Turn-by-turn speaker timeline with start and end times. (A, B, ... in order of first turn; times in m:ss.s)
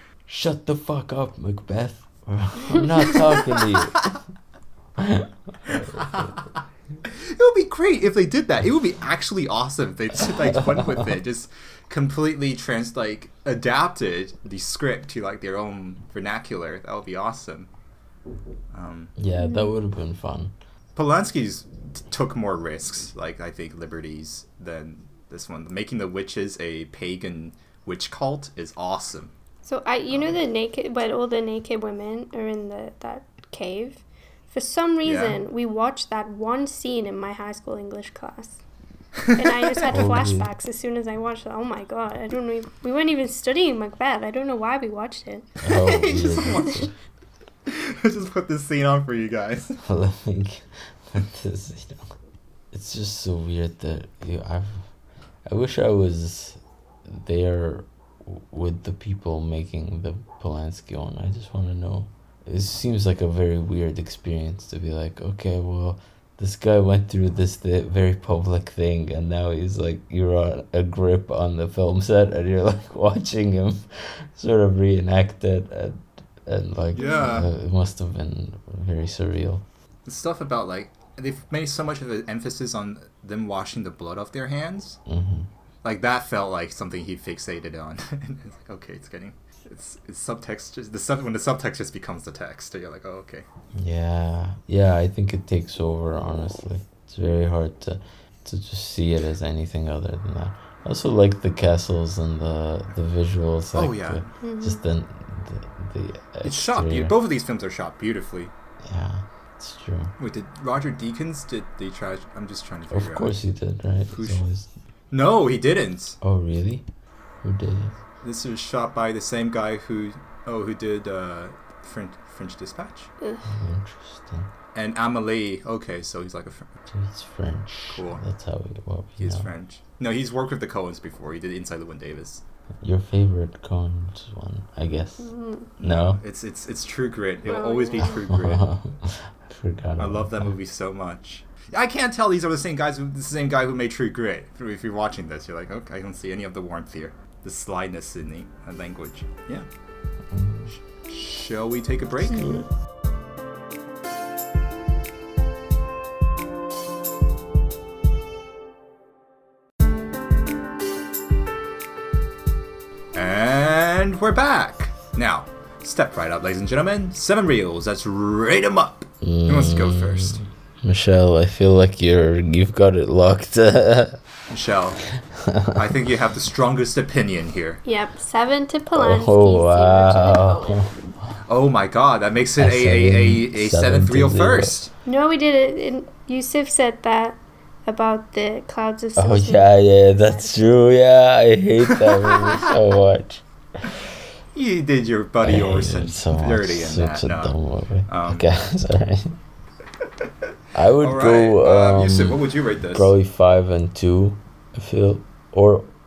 0:00.3-0:04.2 A
0:03.1-0:04.1 B
0:05.0-0:06.4 A
0:05.7-0:17.7 B
0:10.2-0:11.2 A
0:18.7-0:19.1 B
0:19.2-0:20.6 A
0:19.4-0:19.8 C
0:21.0-0:29.3 B
0:29.6-0:38.6 C
0:30.1-0:30.4 B
0:35.0-0:35.4 B
0:39.3-0:45.5 C
0:39.9-0:40.5 A
0:45.6-0:46.9 A
0:45.8-0:46.9 B
0:47.7-0:49.8 B
0:49.8-0:52.1 A
0:52.7-0:54.9 A
0:55.5-1:19.7 A
1:16.9-1:17.5 B
1:17.0-1:17.4 C
1:20.1-1:25.0 B
1:25.1-1:25.5 A
1:25.8-1:33.5 B
1:33.7-1:47.1 A
1:43.7-1:44.3 B
1:44.4-1:44.8 C
1:46.4-1:48.5 B
1:48.8-1:50.1 A
1:50.2-1:53.4 B
1:52.9-1:54.7 A
1:54.1-1:54.4 B
1:55.1-1:56.2 B
1:56.2-1:56.8 A
1:57.4-1:58.0 A
1:58.2-2:03.1 B
2:03.2-2:03.5 C
2:03.4-2:04.5 A
2:04.8-2:06.7 B
2:06.9-2:09.5 A
2:07.7-2:08.2 B
2:09.2-2:12.4 B
2:12.8-2:16.2 A
2:15.2-2:15.7 C
2:15.8-2:18.6 B
2:17.4-2:18.2 C
2:18.0-2:20.6 A
2:20.0-2:29.7 B
2:30.3-2:30.7 A
2:30.7-2:32.6 B
2:32.2-2:32.7 A
2:43.1-2:50.4 B
2:49.2-2:54.2 A
2:54.5-2:55.2 B
2:55.2-2:55.9 A
2:55.7-2:57.8 B
2:57.8-3:00.8 C
2:59.0-3:01.4 A
3:01.5-3:04.9 B
3:02.6-3:04.9 A
3:05.0-3:10.9 C
3:09.2-3:13.9 A
3:11.9-3:12.5 B
3:14.5-3:17.6 B
3:15.4-3:19.4 A
3:18.1-3:18.5 B
3:20.7-3:25.9 A
3:21.0-3:23.1 B